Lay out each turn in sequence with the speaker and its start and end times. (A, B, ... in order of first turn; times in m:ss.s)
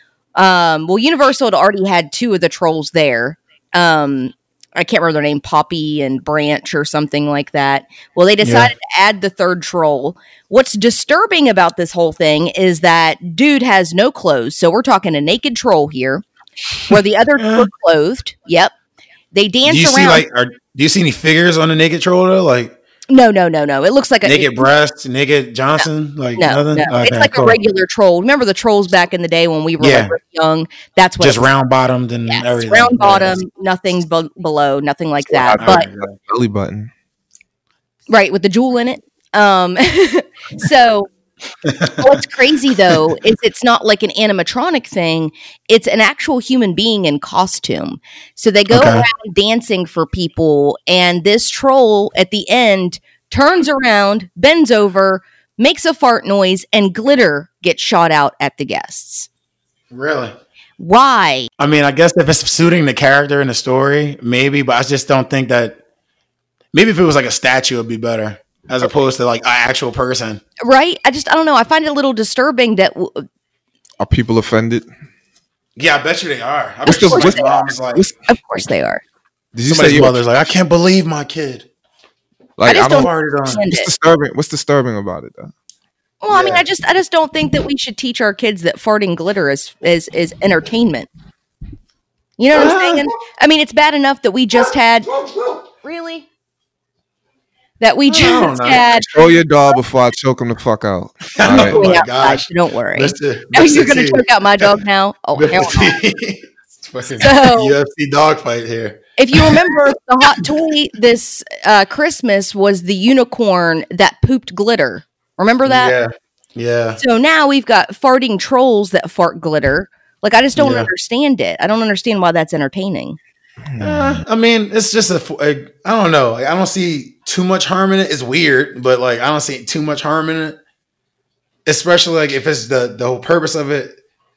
0:00.3-0:16.2 A
0:08.4-0:08.7 B
0:16.8-0:18.7 A
0:17.4-0:17.7 B
0:19.3-0:20.2 A
0:19.6-0:22.7 B
0:23.1-0:24.7 A
0:24.2-0:27.6 B
0:26.4-0:31.5 A
0:29.8-0:30.1 B
0:31.2-0:33.4 B
0:32.3-0:35.9 A
0:35.3-0:36.9 C
0:35.6-0:36.1 B
0:38.1-0:41.1 A
0:41.6-0:42.1 B
0:42.0-0:59.3 A
0:48.7-0:49.0 B
0:59.9-1:00.3 B
1:00.8-1:01.5 A
1:01.6-1:05.8 B
1:06.7-1:10.4 B
1:10.6-1:13.2 A
1:14.0-1:14.9 C
1:15.8-1:18.0 B
1:16.8-1:17.6 A
1:16.8-1:18.1 C
1:18.3-1:19.0 A
1:19.5-1:20.2 C
1:19.7-1:21.7 B
1:22.6-1:23.1 C
1:22.6-1:23.9 A
1:22.9-1:23.6 B
1:23.7-1:25.5 C
1:26.2-1:31.1 A
1:26.3-1:26.6 B
1:32.4-1:36.2 A
1:32.5-1:33.0 B
1:37.8-1:39.2 A
1:38.1-1:38.9 B
1:39.0-1:41.8 C
1:41.4-1:44.7 B
1:41.5-1:46.0 A
1:45.3-1:49.8 B
1:47.2-1:47.7 A
1:49.2-1:55.9 A
1:55.6-1:57.0 B
1:57.0-2:03.2 A
2:00.6-2:00.9 B
2:03.7-2:04.2 C
2:03.8-2:10.6 B
2:11.6-2:14.0 B